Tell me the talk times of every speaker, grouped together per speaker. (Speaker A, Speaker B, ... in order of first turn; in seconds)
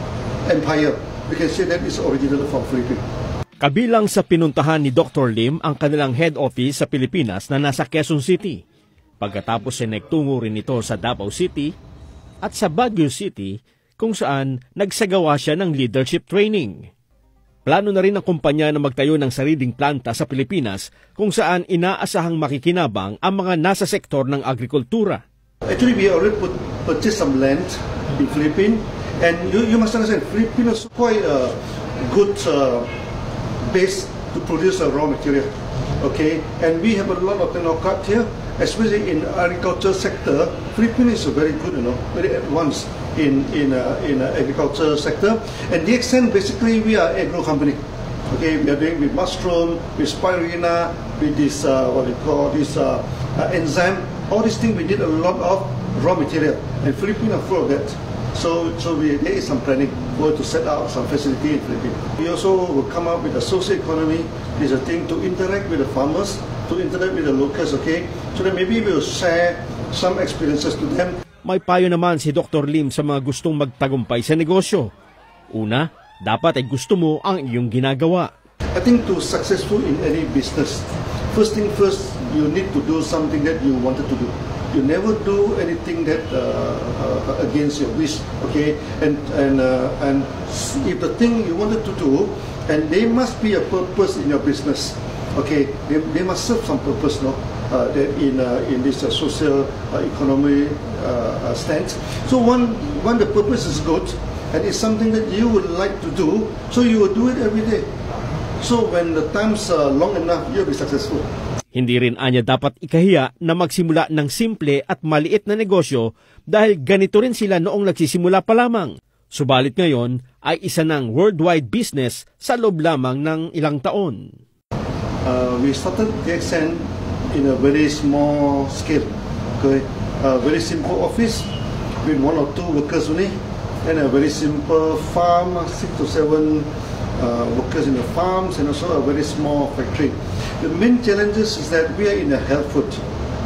Speaker A: 0.5-3.0, 25.7-32.9, 33.7-71.2, 78.8-107.9, 108.6-111.3, 125.2-131.5, 132.0-143.0
Speaker B: 3.6-8.6, 9.2-11.7, 12.4-16.9, 17.7-25.2, 71.4-74.9, 75.5-78.3, 111.8-124.3